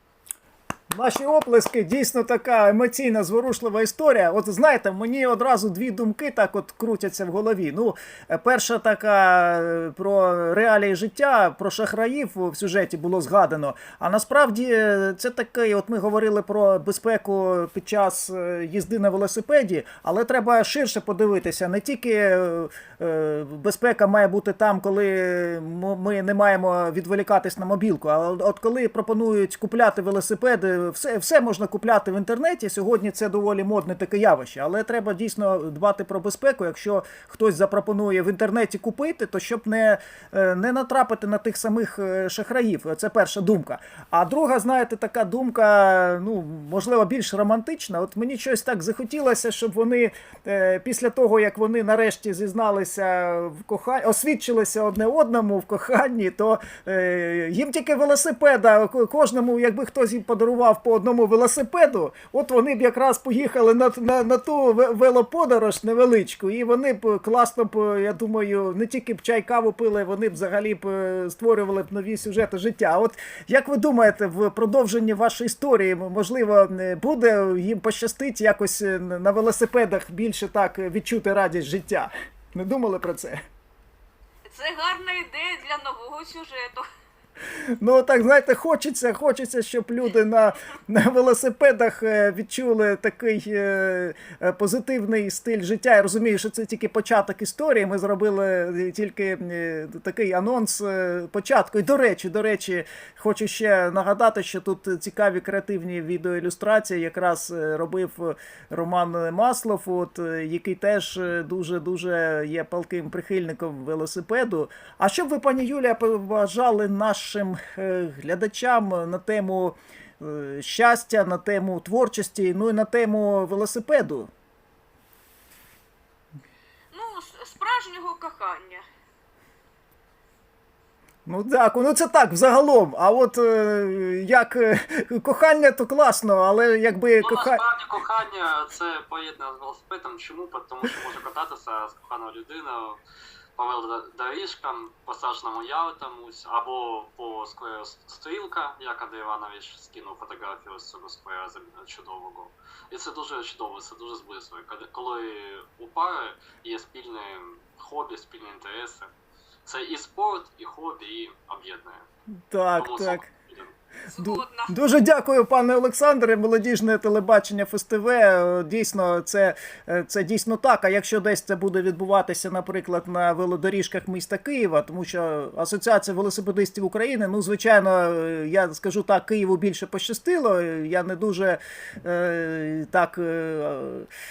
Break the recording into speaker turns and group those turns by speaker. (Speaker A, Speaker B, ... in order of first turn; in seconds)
Speaker A: 0.9-83.4, 87.5-124.3, 131.2-137.6, 162.5-163.3, 164.1-184.1
Speaker B: 84.4-86.8, 126.9-128.8, 164.1-164.7
Speaker C: 137.2-143.0, 143.6-159.1, 159.6-162.0, 162.8-163.7